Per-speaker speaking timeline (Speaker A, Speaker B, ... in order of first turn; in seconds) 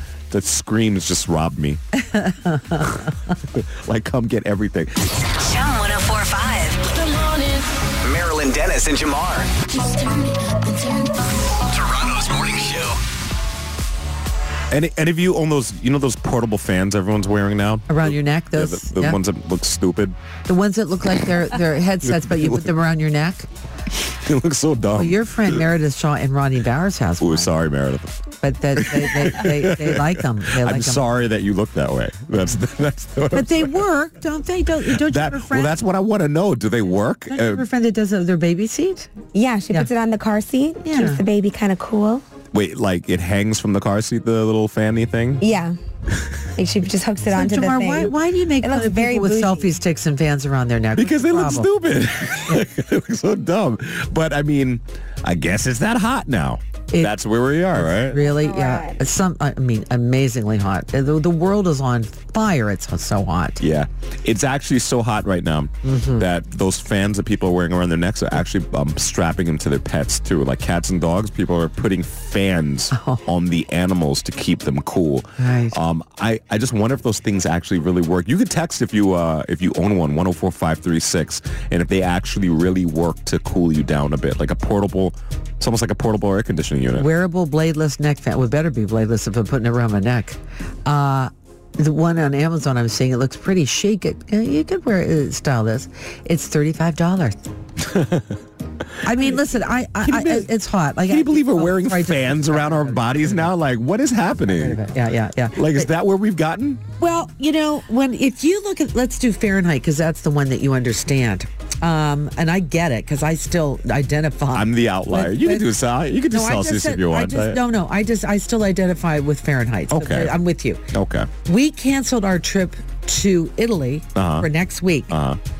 Speaker A: 0.3-1.8, 3.5-5.2, 14.7-20.2, 22.1-22.7, 23.9-25.6, 27.2-33.9, 34.8-37.6, 42.5-45.4, 50.9-58.2, 63.6-87.1, 97.8-98.4, 99.1-99.4, 100.0-100.5, 101.0-104.8, 105.5-106.8, 114.5-117.6, 119.9-121.3, 124.1-124.5, 125.1-125.4
Speaker B: 1.9-3.3, 17.9-19.2, 20.5-23.5, 24.9-27.5, 28.4-31.0, 33.3-35.7, 37.3-39.1, 40.8-41.2, 47.3-51.7, 56.9-57.2, 57.7-63.6, 65.8-66.2, 72.9-73.2, 75.4-75.8, 86.9-97.4, 99.0-103.5, 104.5-105.9, 107.0-115.7, 116.3-120.8, 121.5-125.1
Speaker C: 5.2-7.7, 9.8-11.0
Speaker D: 7.9-9.5, 11.6-13.0
Speaker E: 39.3-42.2, 45.4-45.8, 46.5-49.7, 58.2-59.0